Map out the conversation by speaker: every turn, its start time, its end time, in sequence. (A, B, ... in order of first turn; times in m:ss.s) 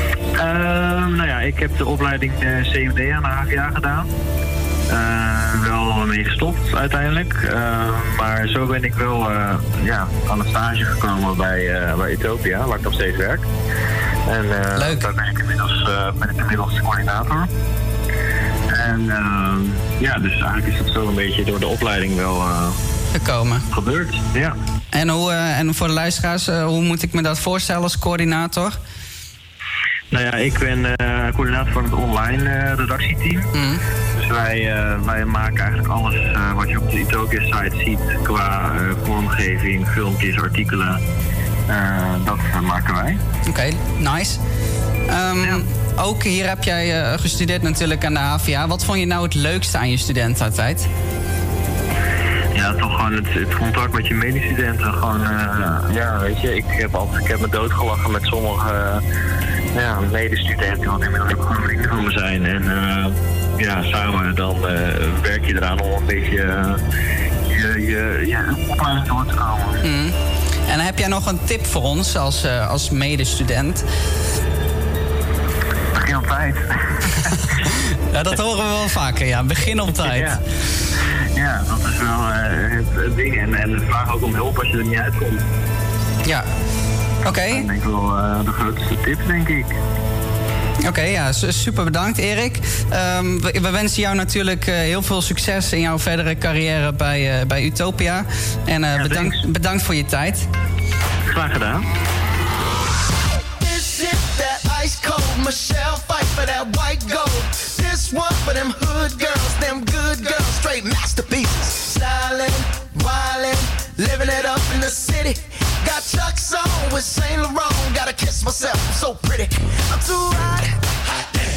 0:00.4-0:04.1 A
0:04.9-0:13.5 A
0:14.3-0:17.5 A
0:14.8-0:15.1 B
0:18.7-0:22.8 A
0:23.2-0:23.6 B
0:23.7-0:24.6 A
0:24.9-0:28.8 B
0:30.1-0:33.5 A
0:33.6-0:33.8 B
0:34.2-0:41.0 A
0:41.7-0:43.2 A
0:43.5-0:44.4 B
0:45.1-0:50.9 B
0:52.6-0:59.0 A
0:59.8-1:06.8 A
1:07.5-1:09.8 A
1:09.8-1:10.2 B
1:10.7-1:13.8 B
1:16.0-1:17.1 A
1:18.1-1:20.4 B
1:19.9-1:20.4 A
1:21.4-1:25.4 A
1:27.2-1:27.7 B
1:27.5-1:29.8 A
1:30.8-1:40.5 B
1:39.0-1:39.4 A
1:41.3-1:41.9 A
1:45.0-1:45.7 C
1:48.3-1:51.8 C
1:53.5-1:55.4 C
1:56.3-2:00.7 C